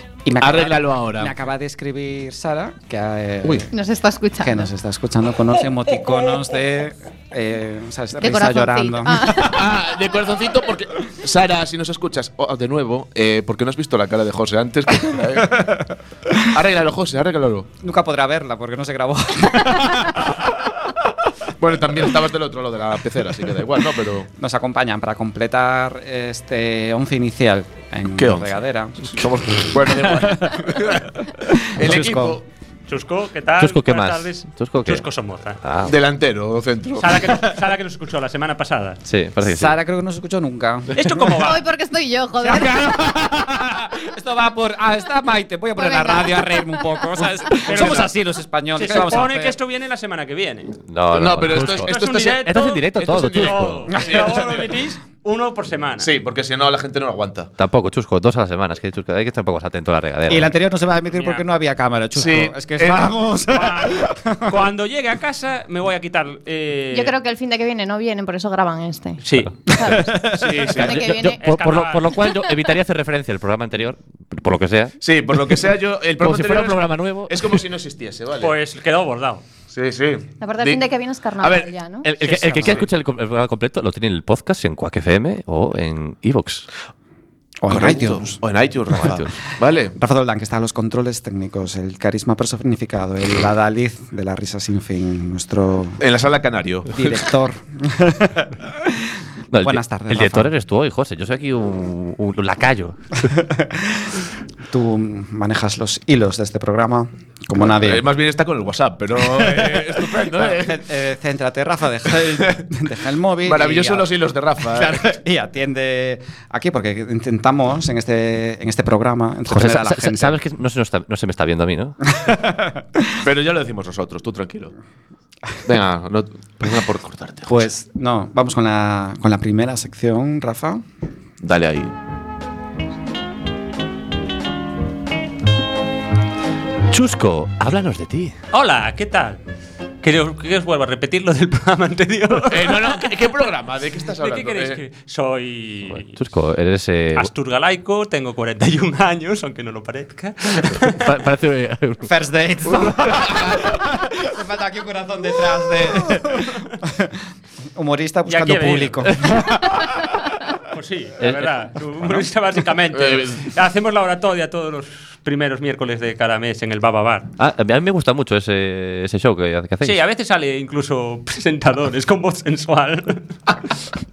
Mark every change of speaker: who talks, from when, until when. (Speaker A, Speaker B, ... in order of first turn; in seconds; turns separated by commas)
Speaker A: 0.2-3.7, Speaker B: 0.4-1.3, Speaker C: 3.7-4.7, Speaker A: 4.4-9.5, Speaker C: 8.2-9.7, Speaker B: 9.4-15.7, Speaker A: 15.6-15.8, Speaker B: 16.4-17.7, Speaker A: 17.8-20.5, Speaker B: 21.6-24.3, Speaker A: 24.4-29.3, Speaker B: 28.2-28.5, Speaker B: 29.0-32.4, Speaker A: 30.1-30.7, Speaker A: 31.4-32.4, Speaker D: 32.9-35.6, Speaker E: 33.6-35.0, Speaker E: 35.6-35.9, Speaker B: 35.8-37.4, Speaker D: 37.0-39.0, Speaker E: 39.0-39.8, Speaker A: 39.4-41.2, Speaker D: 40.9-41.6, Speaker C: 41.4-42.8, Speaker A: 42.4-49.6, Speaker C: 45.8-47.6, Speaker D: 47.6-48.2, Speaker D: 48.7-50.7, Speaker E: 50.8-53.9, Speaker B: 51.1-54.7, Speaker D: 51.7-56.1, Speaker A: 53.9-54.3, Speaker B: 56.0-57.5, Speaker E: 57.6-60.5, Speaker A: 60.3-64.6, Speaker D: 61.1-61.4, Speaker B: 62.1-63.1, Speaker D: 63.5-67.1, Speaker C: 66.9-71.4, Speaker D: 69.2-69.5, Speaker A: 69.8-70.3, Speaker B: 70.3-71.2, Speaker E: 70.8-75.6, Speaker D: 71.4-72.2, Speaker B: 75.0-78.5, Speaker E: 76.2-77.6, Speaker D: 78.4-79.4, Speaker B: 79.7-80.8, Speaker C: 80.4-82.1, Speaker B: 81.4-81.7, Speaker E: 82.0-86.7, Speaker D: 82.2-82.8, Speaker A: 82.4-82.8, Speaker A: 87.6-88.4, Speaker B: 87.7-89.9, Speaker E: 89.0-89.3, Speaker A: 90.0-96.0, Speaker B: 96.0-97.2, Speaker A: 96.9-100.5, Speaker E: 99.5-103.2, Speaker A: 103.2-108.0, Speaker B: 107.6-110.8, Speaker A: 109.2-120.4, Speaker B: 113.4-115.1, Speaker E: 119.5-122.1, Speaker A: 122.1-123.2, Speaker B: 123.2-124.7, Speaker B: 125.6-127.7, Speaker A: 127.5-130.8, Speaker B: 131.4-131.9, Speaker E: 136.9-138.3, Speaker D: 138.5-139.4, Speaker D: 140.0-143.5, Speaker B: 142.5-144.8, Speaker D: 144.2-146.1, Speaker E: 145.9-147.3, Speaker D: 147.1-151.1, Speaker E: 150.7-152.1, Speaker A: 152.0-157.2, Speaker E: 152.7-152.9, Speaker B: 153.2-153.6, Speaker A: 157.7-159.9, Speaker D: 158.3-159.1, Speaker D: 160.7-167.3, Speaker E: 161.2-162.2, Speaker B: 162.9-163.5, Speaker E: 167.4-170.0, Speaker D: 169.8-173.3